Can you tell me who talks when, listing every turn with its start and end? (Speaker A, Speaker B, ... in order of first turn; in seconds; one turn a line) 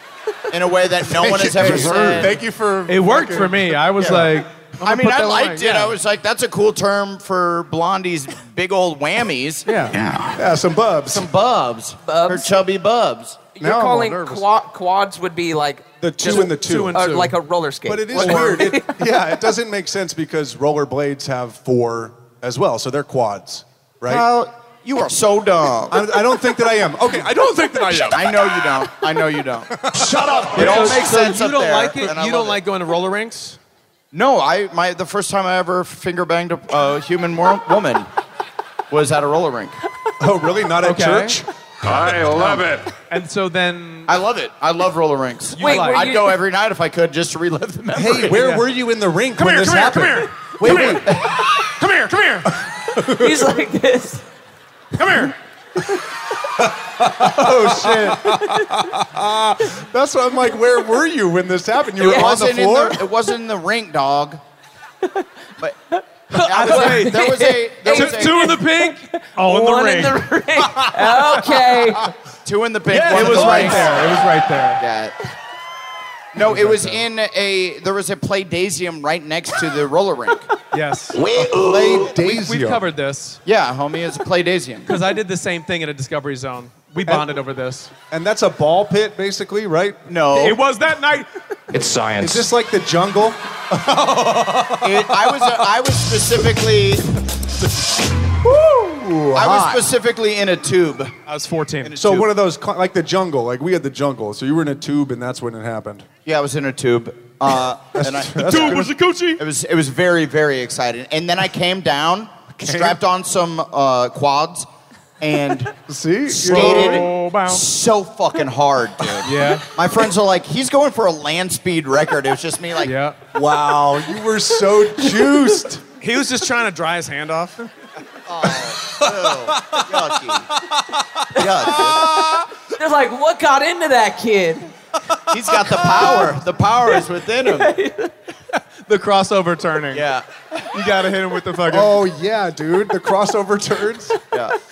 Speaker A: 0.5-2.4
Speaker B: 1.0-4.3
Speaker C: 2.9-6.0
Speaker A: 4.0-9.7
Speaker C: 9.7-9.9
Speaker B: 10.3-11.3
Speaker A: 11.1-13.4
Speaker D: 12.1-12.5
Speaker D: 13.6-18.9
Speaker B: 13.6-14.4
Speaker B: 16.0-17.2
Speaker C: 16.2-17.4
Speaker B: 17.9-24.3
Speaker A: 24.1-26.0
Speaker B: 25.9-28.2
Speaker A: 28.1-29.9
Speaker B: 29.8-31.1
Speaker E: 30.1-30.6
Speaker A: 30.4-32.6
Speaker C: 30.5-33.6
Speaker A: 34.1-38.1
Speaker A: 38.9-39.8
Speaker B: 40.2-42.5
Speaker C: 40.8-41.4
Speaker E: 41.8-42.9
Speaker C: 42.4-44.1
Speaker A: 44.1-48.5
Speaker C: 45.5-46.1
Speaker D: 45.6-46.4
Speaker B: 47.9-51.1
Speaker C: 48.2-48.7
Speaker C: 49.4-52.5
Speaker A: 50.6-51.5
Speaker B: 52.9-53.6
Speaker D: 53.1-54.2
Speaker C: 54.9-55.4
Speaker B: 56.6-63.0
Speaker C: 57.2-58.2
Speaker A: 62.0-64.4
Speaker D: 62.0-62.3
Speaker D: 65.9-72.1
Speaker C: 66.3-71.4
Speaker A: 66.4-68.5
Speaker A: 72.4-74.1
Speaker C: 72.9-74.8
Speaker A: 74.8-75.2
Speaker A: 76.3-80.5
Speaker C: 76.4-77.0
Speaker C: 80.7-81.2
Speaker E: 81.2-82.0
Speaker A: 81.3-81.7
Speaker B: 81.4-82.8
Speaker C: 82.0-83.4
Speaker A: 83.4-84.9
Speaker C: 84.9-87.9
Speaker B: 88.1-90.1
Speaker A: 90.1-90.6
Speaker C: 90.3-91.3
Speaker E: 91.7-92.5
Speaker B: 92.2-95.7
Speaker A: 94.8-97.0
Speaker B: 98.3-99.9
Speaker A: 99.3-101.1
Speaker C: 101.2-101.9
Speaker A: 101.8-102.3
Speaker B: 102.0-106.1
Speaker A: 106.2-114.7
Speaker B: 107.9-108.9
Speaker C: 108.4-109.4
Speaker B: 112.5-113.0
Speaker A: 115.2-115.8
Speaker B: 115.9-117.1
Speaker A: 116.3-122.9
Speaker C: 116.5-117.7
Speaker C: 119.2-119.7
Speaker C: 122.8-123.2
Speaker B: 123.3-125.8
Speaker C: 126.0-127.7
Speaker A: 128.2-130.5
Speaker A: 131.3-132.2
Speaker B: 131.7-132.5
Speaker D: 132.7-134.7
Speaker A: 135.3-137.7
Speaker D: 136.0-136.2
Speaker D: 137.4-138.1
Speaker C: 138.5-140.1
Speaker A: 139.9-140.3
Speaker C: 140.7-142.0
Speaker B: 141.7-144.1